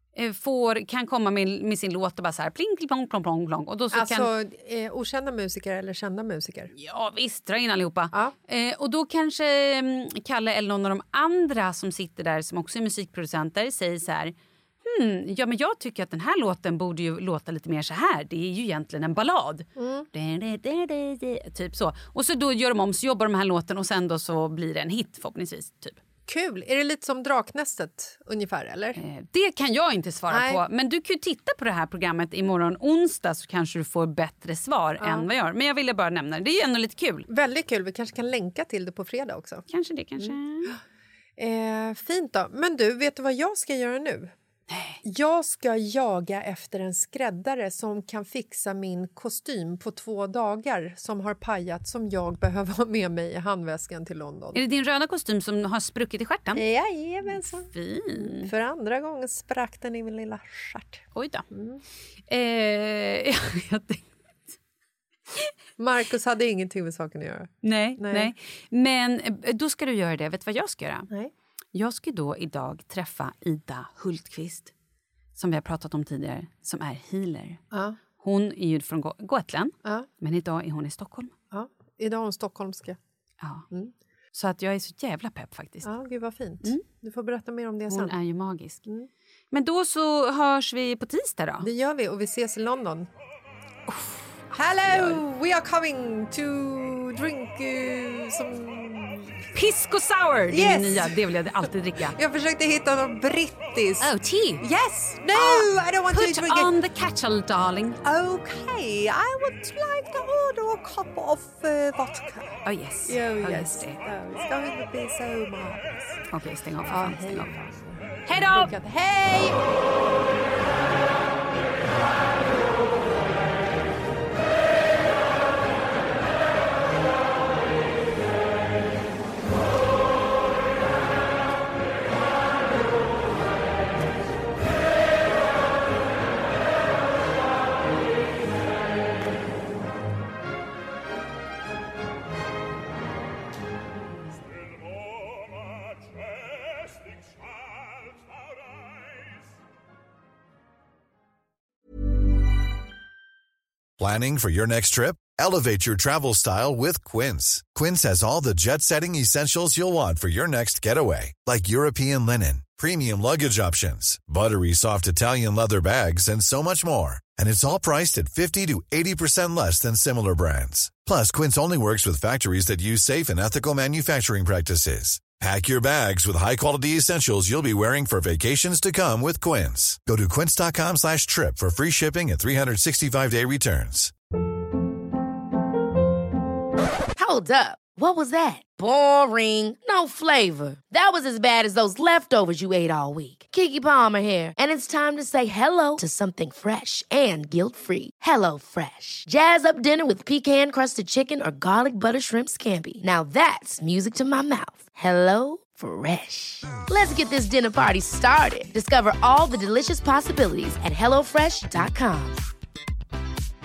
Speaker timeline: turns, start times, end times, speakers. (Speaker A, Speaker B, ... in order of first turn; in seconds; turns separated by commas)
Speaker A: 0.1-4.3, Speaker B: 3.9-6.7, Speaker A: 6.7-26.0, Speaker B: 19.8-20.1, Speaker B: 26.3-29.0, Speaker A: 28.9-37.3, Speaker B: 30.3-30.6, Speaker B: 35.0-35.3, Speaker B: 37.3-39.6, Speaker A: 39.7-40.7, Speaker B: 40.2-40.8, Speaker B: 41.4-44.3, Speaker A: 44.7-45.0, Speaker B: 45.0-54.6, Speaker A: 54.5-56.6, Speaker B: 56.5-61.8, Speaker A: 57.3-58.5, Speaker A: 61.1-61.5, Speaker A: 62.3-64.5, Speaker B: 65.8-68.3, Speaker A: 67.6-71.1, Speaker A: 71.7-74.7, Speaker A: 75.3-77.6, Speaker B: 77.7-78.0, Speaker A: 78.2-81.3, Speaker B: 81.5-83.0, Speaker A: 83.4-83.7, Speaker A: 84.3-85.9, Speaker B: 85.8-88.1, Speaker A: 87.9-88.8, Speaker A: 89.5-91.7, Speaker B: 91.6-93.1, Speaker A: 93.9-95.2, Speaker B: 94.5-99.4, Speaker A: 99.5-102.2, Speaker B: 100.5-101.2, Speaker B: 102.1-106.7, Speaker A: 104.0-104.6, Speaker A: 105.3-108.0, Speaker B: 108.0-116.2, Speaker A: 112.6-114.0, Speaker A: 116.3-117.5, Speaker B: 116.8-119.6, Speaker A: 118.2-118.7, Speaker C: 154.0-184.1, Speaker D: 187.2-212.4